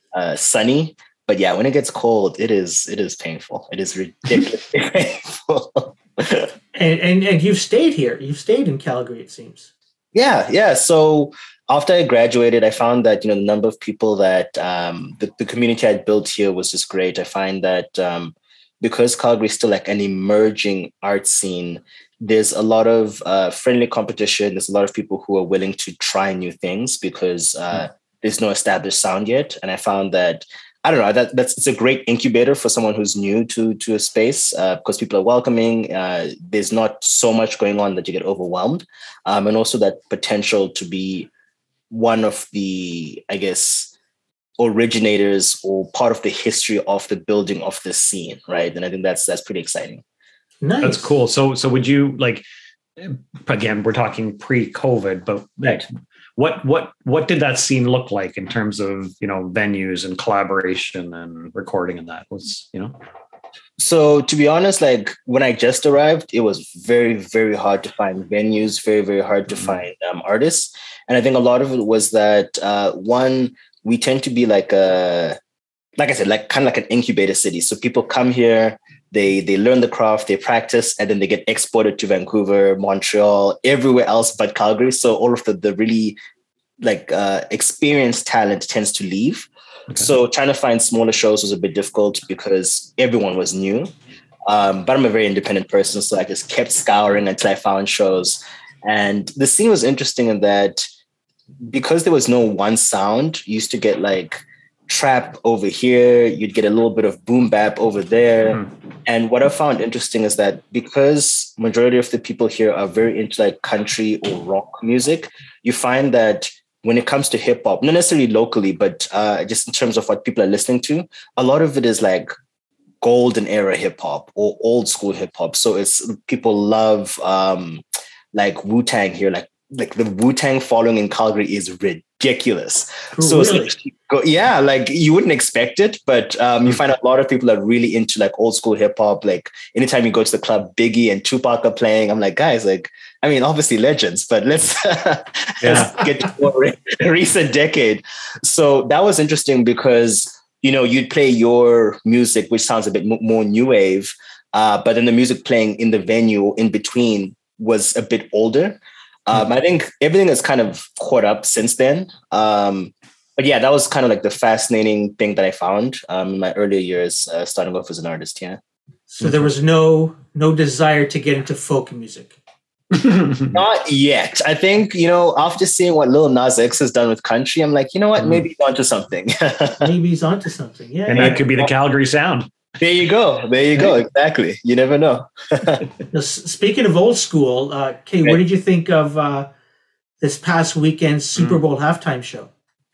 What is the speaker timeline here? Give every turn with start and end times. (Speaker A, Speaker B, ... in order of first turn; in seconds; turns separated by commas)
Speaker A: 0.1-6.5, Speaker B: 6.7-9.7, Speaker A: 10.1-41.3, Speaker A: 41.9-43.9, Speaker A: 44.6-50.0, Speaker B: 50.6-51.1, Speaker C: 50.8-52.4, Speaker C: 53.0-63.0, Speaker A: 63.8-75.4, Speaker C: 69.5-69.8, Speaker A: 76.0-86.2, Speaker A: 86.8-93.9, Speaker A: 94.5-100.9, Speaker A: 101.7-122.3, Speaker A: 123.0-168.6, Speaker B: 133.2-133.7, Speaker C: 145.6-145.9, Speaker B: 169.1-172.3, Speaker C: 172.9-173.6, Speaker A: 173.5-179.9, Speaker B: 179.8-181.7, Speaker C: 181.1-182.5, Speaker A: 181.2-181.4, Speaker A: 182.8-185.9, Speaker B: 186.1-189.5, Speaker B: 190.2-192.5